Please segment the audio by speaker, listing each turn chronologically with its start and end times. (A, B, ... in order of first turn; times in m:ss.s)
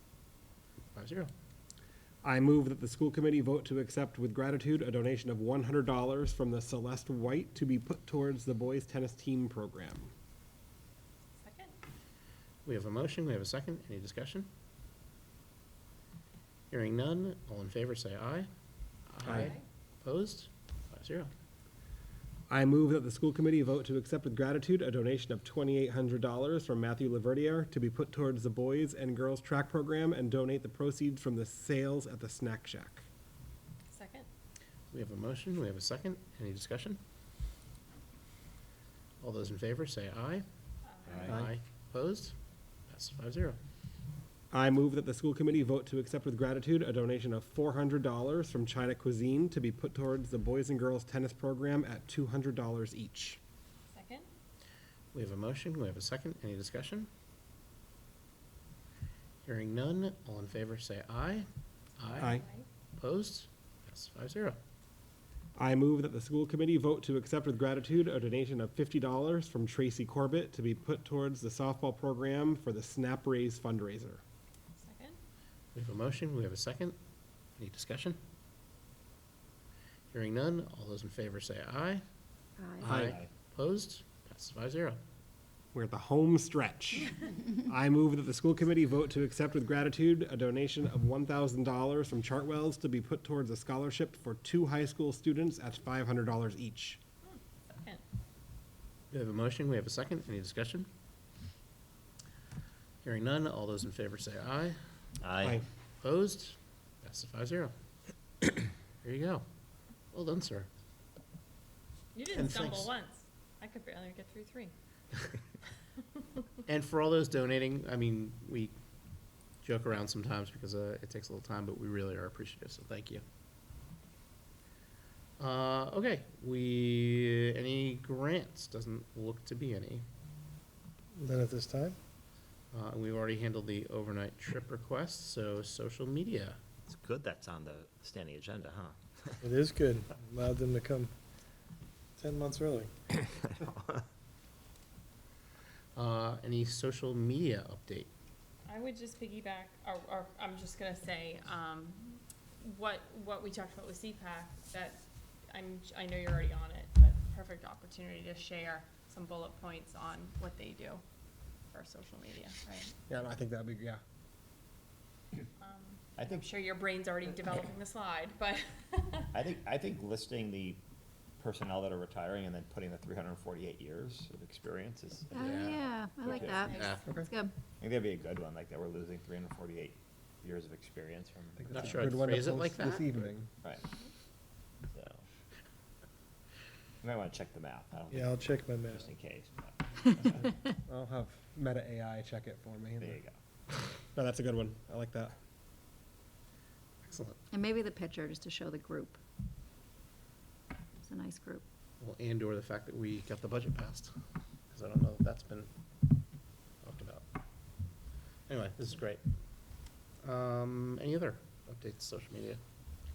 0:00.9-0:01.3 A
0:02.2-0:10.1 B
0:11.4-0:11.7 C
0:12.6-0:14.5 A
0:16.7-0:18.5 A
0:19.1-0:21.3 A
0:19.2-0:19.5 B
0:19.3-0:19.6 C
0:22.5-0:33.0 B
0:33.9-0:34.3 C
0:34.9-0:37.0 A
0:39.2-0:40.4 A
0:40.8-0:41.4 C
0:41.0-0:42.3 A
0:42.9-0:43.6 A
0:44.5-0:53.4 B
0:53.9-0:54.2 C
0:55.1-0:57.1 A
0:59.4-1:01.5 A
1:02.0-1:02.4 A
1:02.2-1:02.4 B
1:02.2-1:02.7 C
1:03.0-1:04.6 A
1:05.6-1:14.2 B
1:14.8-1:15.2 C
1:15.7-1:17.0 A
1:17.6-1:18.2 A
1:20.1-1:22.0 A
1:22.8-1:25.0 A
1:22.9-1:23.3 D
1:22.9-1:23.1 B
1:25.7-1:37.0 B
1:37.2-1:38.0 C
1:39.1-1:40.9 A
1:43.0-1:44.8 A
1:45.2-1:45.6 D
1:46.0-1:47.7 A
1:49.0-1:49.4 A
1:50.1-1:50.7 A
1:52.1-1:54.7 C
1:52.3-1:52.9 A
1:56.6-1:58.7 A
1:59.6-2:03.2 A
2:05.4-2:10.0 A
2:11.1-2:12.0 E
2:12.7-2:16.6 A
2:16.9-2:19.3 D
2:19.4-2:21.1 E
2:22.2-2:22.9 E
2:23.2-2:24.0 D
2:26.0-2:28.1 A
2:28.6-2:41.0 C
2:41.7-2:42.9 C
2:43.1-2:44.0 B
2:45.6-2:49.4 C
2:46.2-2:46.4 D
2:49.3-2:50.8 D
2:51.4-2:56.8 D
2:55.3-2:57.5 F
2:55.3-2:57.1 A
2:57.8-3:01.6 D
3:01.6-3:03.5 B
3:01.7-3:03.3 A
3:04.9-3:05.2 D
3:07.0-3:10.5 D
3:08.1-3:09.1 E
3:10.9-3:13.2 B
3:13.0-3:13.3 D
3:14.1-3:15.3 B
3:17.0-3:17.4 A
3:17.5-3:19.2 F
3:21.0-3:21.6 F
3:22.0-3:24.1 A
3:24.7-3:25.7 A
3:26.8-3:27.2 A
3:28.5-3:29.2 A
3:30.2-3:32.6 A